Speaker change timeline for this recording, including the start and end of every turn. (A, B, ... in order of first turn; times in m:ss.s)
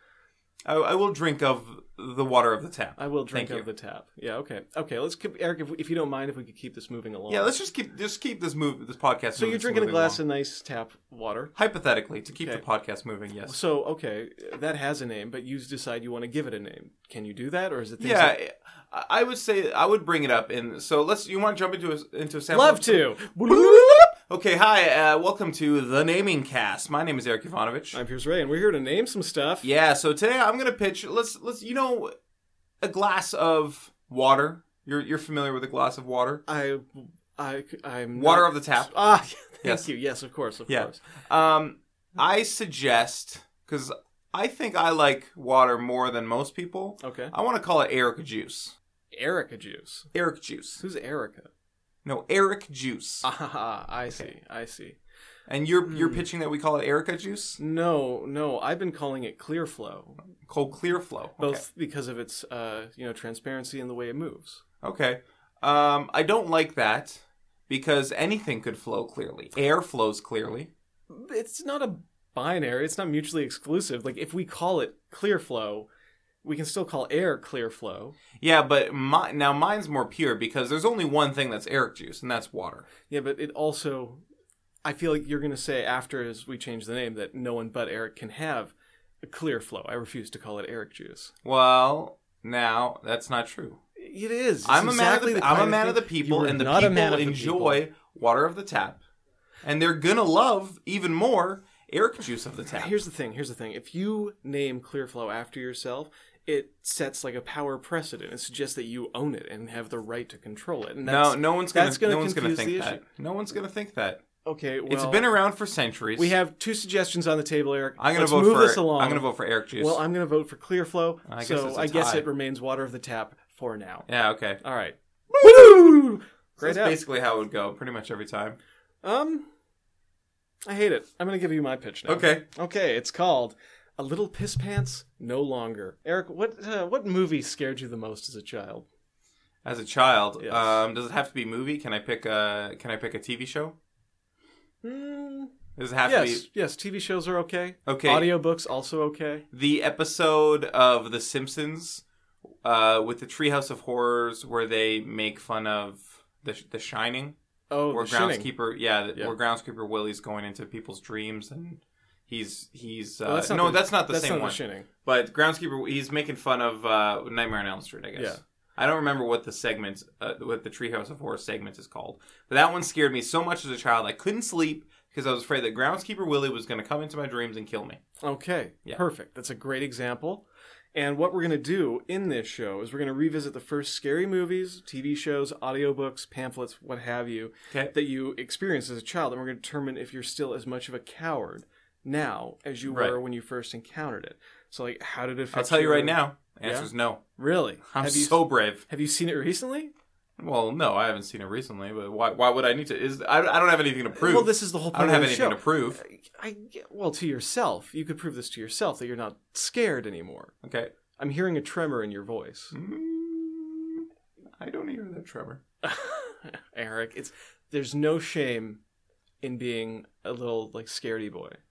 0:00.6-0:03.6 A
0:03.0-0:07.5 B
0:07.3-0:10.2 A
0:09.3-0:11.5 B
0:11.5-0:13.5 A
0:12.3-0:12.6 B
0:13.4-0:18.4 B
0:18.0-0:28.0 A
0:22.5-0:24.1 B
0:27.9-0:29.7 B
0:29.6-0:32.1 A
0:32.8-0:36.4 A
0:36.4-0:41.0 B
0:38.1-0:38.9 A
0:40.7-0:48.7 A
0:47.0-0:47.3 B
0:49.1-0:50.1 B
0:50.1-0:50.8 A
0:50.8-0:51.5 B
0:52.0-0:53.3 A
0:53.2-0:55.0 B
0:55.5-0:57.6 A
0:55.9-0:56.2 B
0:57.6-1:00.2 B
1:00.4-1:01.6 A
1:01.4-1:04.6 B
1:04.8-1:10.7 A
1:11.1-1:15.9 B
1:16.4-1:18.2 B
1:18.4-1:22.9 A
1:23.1-1:24.2 B
1:24.8-1:31.3 B
1:31.4-1:33.8 A
1:34.0-1:37.8 B
1:34.6-1:39.0 A
1:39.6-1:42.9 A
1:42.7-1:53.0 B
1:51.0-1:54.2 A
1:54.4-1:55.3 B
1:54.9-1:56.3 A
1:56.2-2:04.1 B
1:58.0-2:00.0 A
2:01.3-2:02.3 A
2:04.1-2:04.6 A
2:04.6-2:07.0 B
2:05.3-2:05.9 A
2:06.6-2:08.6 A
2:09.0-2:09.5 B
2:10.6-2:18.8 B
2:12.1-2:12.4 A
2:19.6-2:23.7 A
2:20.4-2:20.8 B
2:24.8-2:29.4 B
2:25.8-2:26.4 A
2:27.8-2:28.3 A
2:29.5-2:32.0 A
2:32.6-2:37.3 A
2:37.7-2:38.5 B
2:37.9-2:58.0 A
2:43.2-2:44.9 B
2:48.1-2:48.4 B
2:58.2-3:00.4 B
3:00.9-3:19.9 B
3:12.9-3:13.2 A
3:15.5-3:17.2 A
3:17.9-3:18.8 A
3:20.4-3:26.0 A
3:24.2-3:30.5 B
3:30.6-3:30.9 A
3:31.2-3:32.7 B
3:32.7-3:34.0 A
3:34.6-3:35.6 A
3:35.8-3:38.8 B
3:39.4-3:41.6 B